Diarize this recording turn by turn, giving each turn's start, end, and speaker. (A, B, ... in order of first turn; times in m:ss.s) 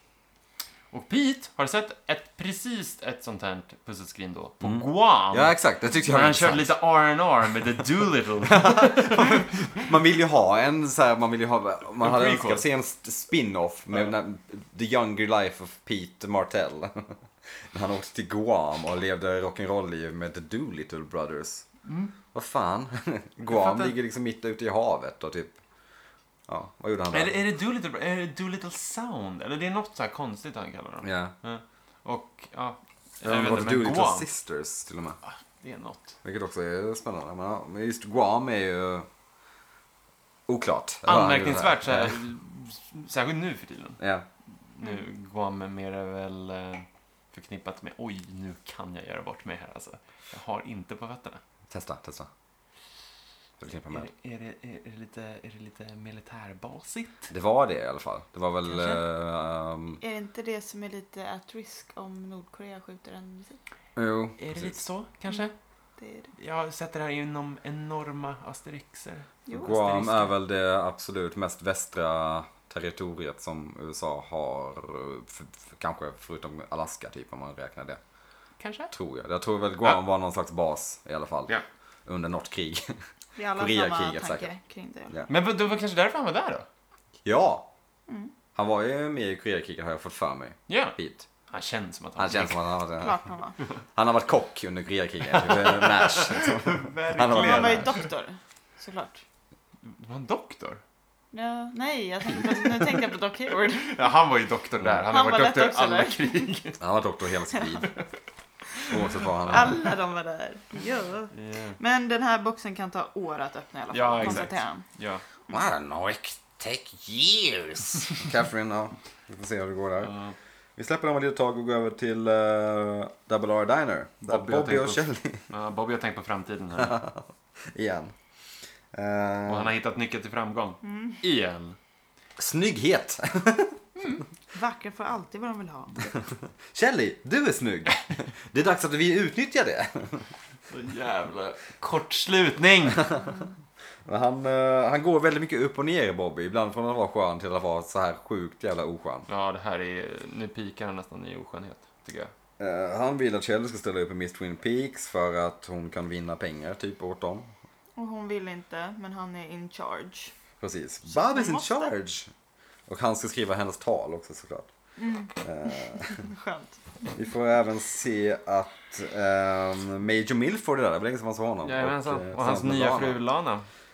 0:00.9-0:09.9 A
0:04.6-0:06.8 B
0:08.5-0:17.2 B
0:12.0-0:12.6 A
0:17.7-0:21.7 B
0:21.8-0:22.1 A
0:22.3-0:25.6 B
0:23.5-0:23.9 A
0:26.5-0:27.4 B
0:27.1-0:34.3 A
0:31.0-0:31.3 B
0:33.2-0:35.2 B
0:35.2-0:36.2 A
0:36.2-0:39.1 B
0:40.5-0:42.2 B
0:41.1-0:44.0 A
0:44.0-0:44.3 B
0:44.7-0:51.4 A
0:51.7-0:52.3 B
0:53.6-0:54.1 B
0:53.9-0:57.3 A
0:57.3-1:00.0 B
0:58.7-0:59.0 A
1:00.0-1:03.6 C
1:04.0-1:04.8 B
1:04.4-1:05.6 A
1:06.0-1:06.3 C
1:06.4-1:10.3 A
1:09.5-1:10.1 C
1:09.5-1:18.0 B
1:18.6-1:18.9 A
1:18.9-1:21.5 B
1:22.1-1:22.9 B
1:23.4-1:25.2 C
1:23.6-1:24.5 B
1:25.3-1:26.7 A
1:27.2-1:27.7 B
1:28.6-1:31.3 B
1:30.7-1:31.0 A
1:31.5-1:32.6 A
1:32.2-1:33.2 B
1:33.0-1:33.6 C
1:33.9-1:37.9 B
1:35.3-1:38.1 A
1:37.3-1:39.2 C
1:39.8-1:40.8 A
1:41.3-1:44.1 C
1:43.8-1:46.8 A
1:45.1-1:46.5 C
1:46.8-1:47.9 B
1:48.9-1:49.8 B
1:49.5-1:54.8 C
1:49.5-1:49.8 A
1:51.3-1:51.8 A
1:53.9-1:55.2 A
1:55.5-2:00.1 B
2:00.0-2:00.4 A
2:00.8-2:05.4 B
2:04.2-2:07.0 A
2:06.8-2:08.1 B
2:08.9-2:09.7 B
2:09.5-2:11.8 A
2:10.8-2:11.2 C
2:12.4-2:13.8 B
2:14.5-2:16.0 C
2:16.1-2:20.3 B
2:20.7-2:23.1 A
2:23.2-2:23.5 C
2:24.1-2:29.3 B
2:29.3-2:32.3 A
2:32.6-2:37.5 B
2:38.0-2:40.3 C
2:40.6-2:42.3 B
2:41.1-2:41.9 C
2:42.9-2:44.7 B
2:45.0-2:47.0 C
2:45.4-2:46.3 B
2:47.1-2:53.2 B
2:51.6-2:53.7 A